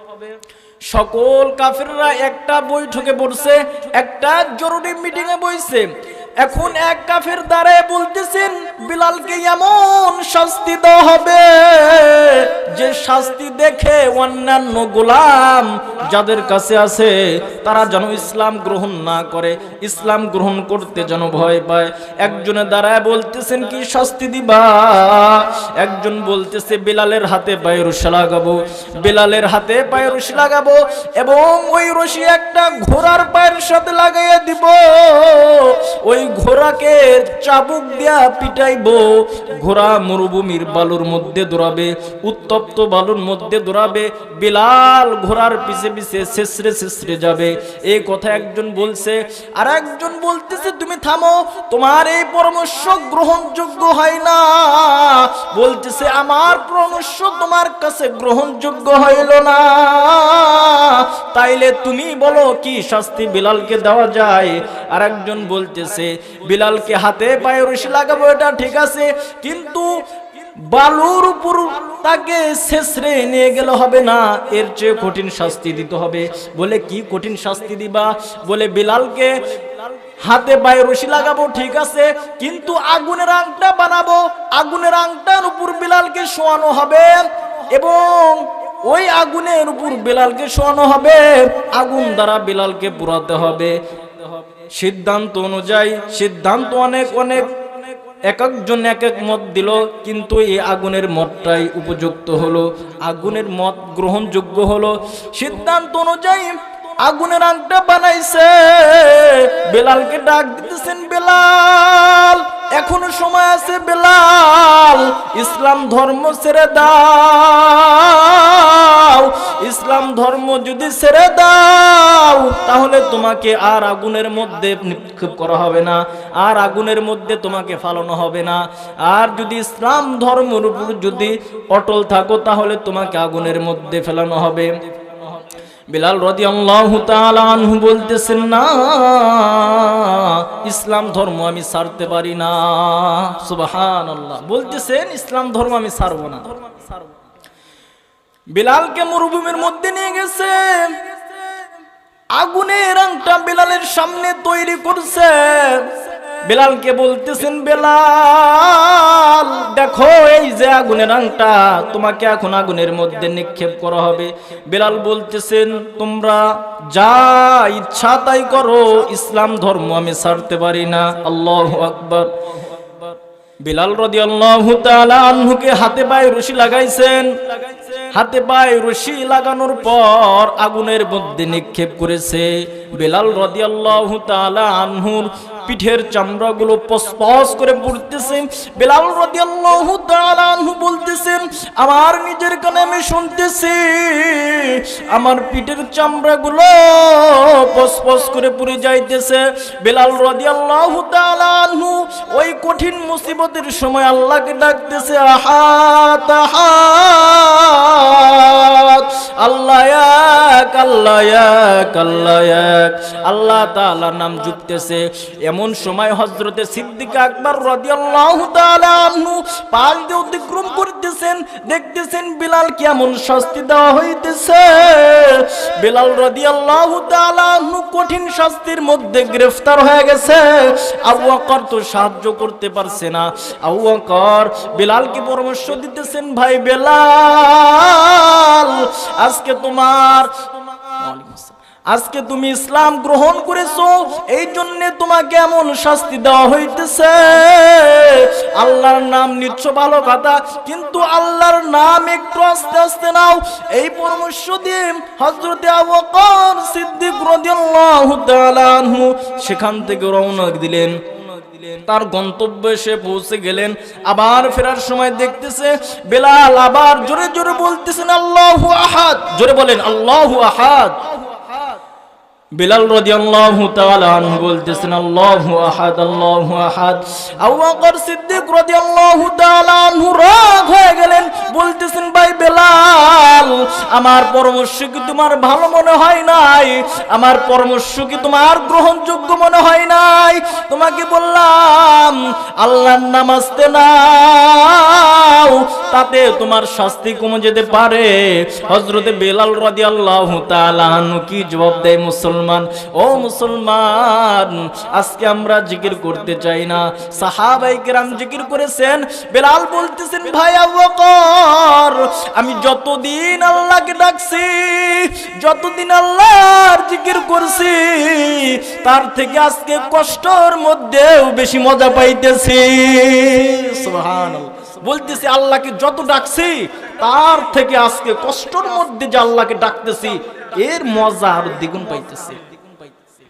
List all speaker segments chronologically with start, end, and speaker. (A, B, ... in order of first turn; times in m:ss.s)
0:00.9-1:10.0 A
1:10.6-1:33.8 A
1:34.6-1:37.6 A
1:38.3-2:15.3 A
2:15.9-2:27.0 A
2:28.5-2:31.1 A
2:32.3-2:52.4 A
2:53.6-4:31.1 A
4:32.6-5:32.6 A